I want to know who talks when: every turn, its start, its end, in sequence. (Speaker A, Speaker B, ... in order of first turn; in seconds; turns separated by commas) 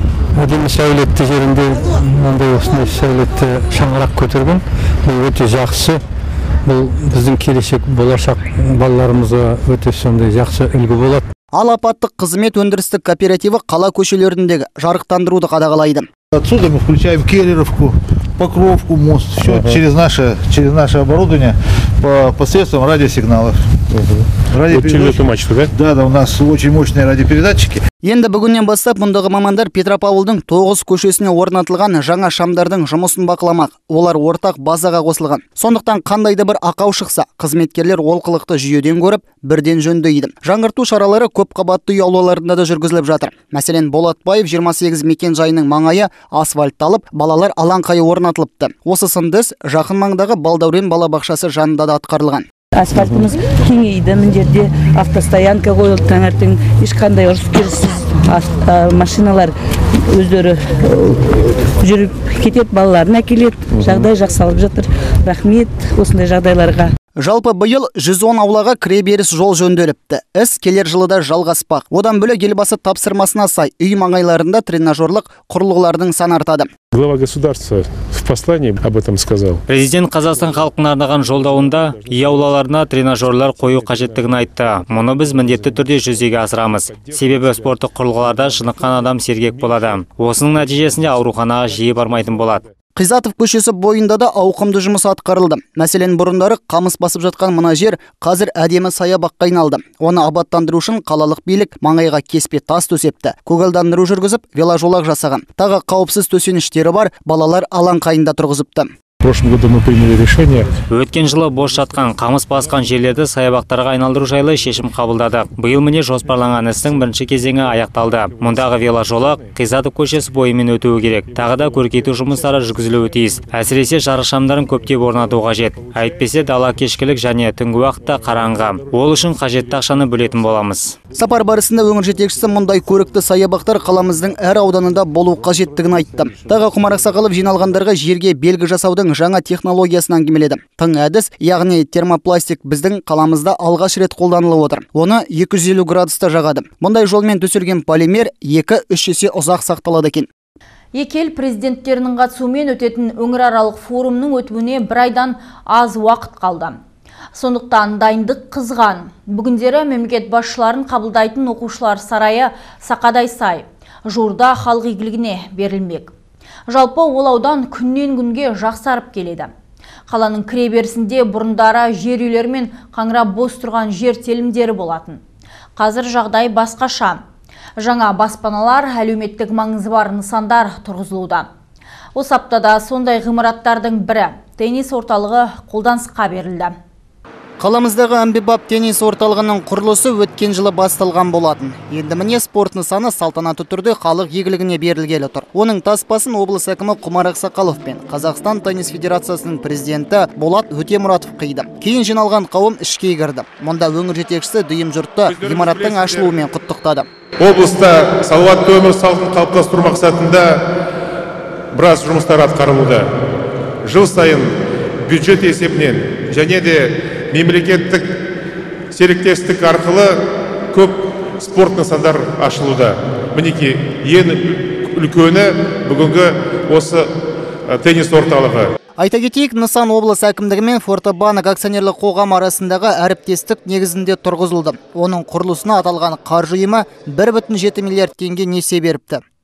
Speaker A: 0.3-6.0, Speaker A: 6.7-11.2, Speaker B: 11.5-16.1, Speaker C: 16.3-23.6, Speaker D: 19.4-19.8, Speaker D: 23.9-25.7, Speaker C: 24.5-27.8, Speaker B: 28.0-52.5, Speaker E: 52.7-59.5, Speaker E: 60.1-66.9, Speaker B: 67.2-76.7, Speaker D: 76.9-79.6, Speaker F: 79.7-92.6, Speaker D: 81.2-82.5, Speaker D: 85.2-85.8, Speaker B: 93.0-108.9, Speaker D: 109.2-110.8, Speaker F: 110.9-131.0, Speaker B: 131.1-150.3, Speaker G: 150.9-156.8, Speaker G: 157.3-166.1, Speaker G: 166.7-169.5, Speaker G: 170.1-175.2, Speaker G: 175.8-177.2, Speaker G: 177.8-181.5, Speaker G: 182.1-186.7, Speaker B: 187.6-207.1, Speaker D: 205.3-206.3, Speaker D: 207.4-210.6, Speaker D: 211.7-213.1, Speaker D: 213.8-214.5, Speaker D: 215.0-218.1, Speaker D: 218.9-220.2, Speaker D: 220.7-227.1, Speaker D: 227.7-228.7, Speaker B: 229.0-239.2